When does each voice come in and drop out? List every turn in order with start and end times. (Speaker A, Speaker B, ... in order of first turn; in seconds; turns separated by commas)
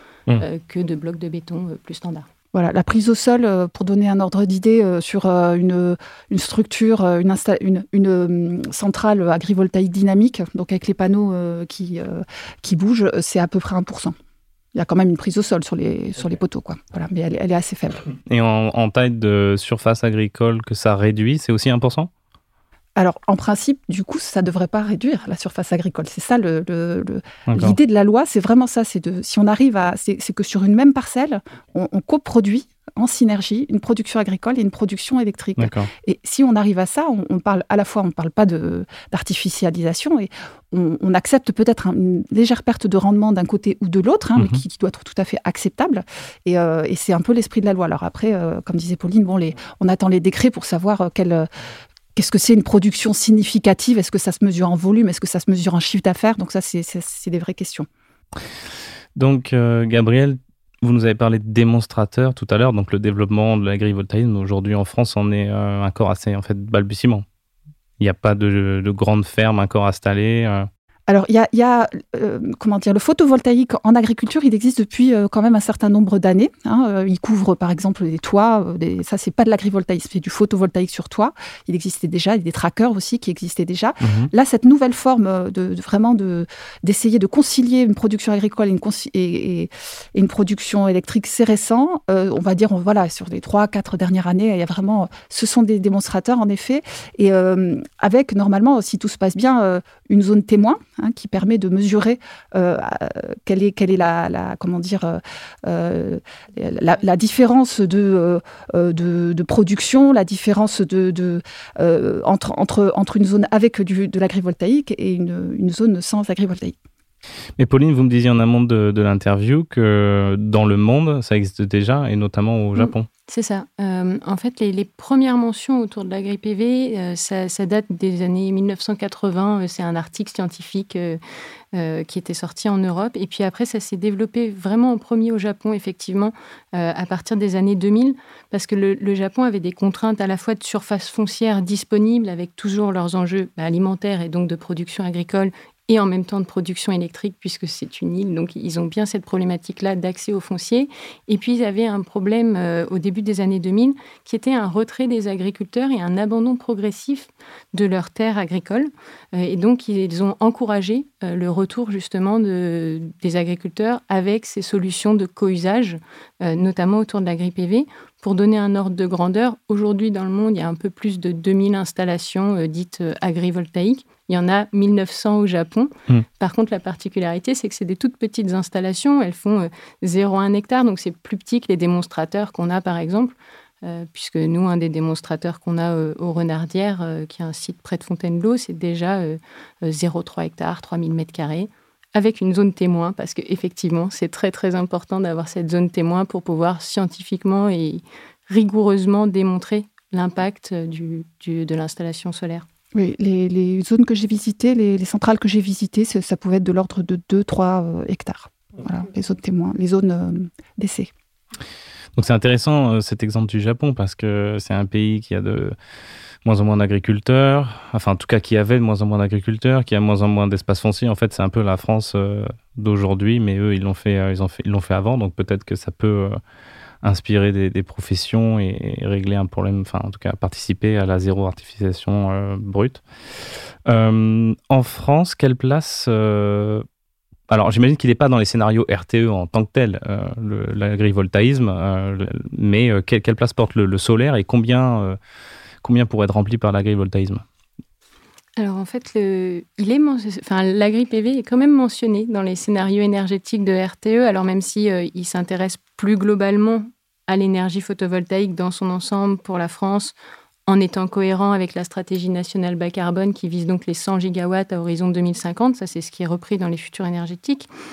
Speaker A: 0.4-2.3, Speaker B: 2.5-14.1, Speaker B: 14.7-18.1, Speaker C: 18.3-22.1, Speaker B: 23.0-51.5, Speaker C: 27.5-27.8, Speaker C: 35.6-35.9, Speaker C: 44.4-44.6, Speaker B: 52.1-57.9, Speaker C: 59.1-67.2, Speaker C: 68.0-70.7, Speaker B: 71.1-116.8, Speaker C: 84.0-84.3, Speaker C: 117.6-123.1, Speaker A: 122.7-131.2, Speaker A: 131.7-202.7, Speaker B: 202.9-211.1, Speaker C: 212.2-215.7, Speaker C: 216.4-226.4, Speaker C: 227.0-233.0, Speaker C: 233.8-236.8, Speaker C: 237.5-245.2, Speaker C: 245.8-247.4, Speaker A: 248.6-260.1, Speaker A: 260.7-267.7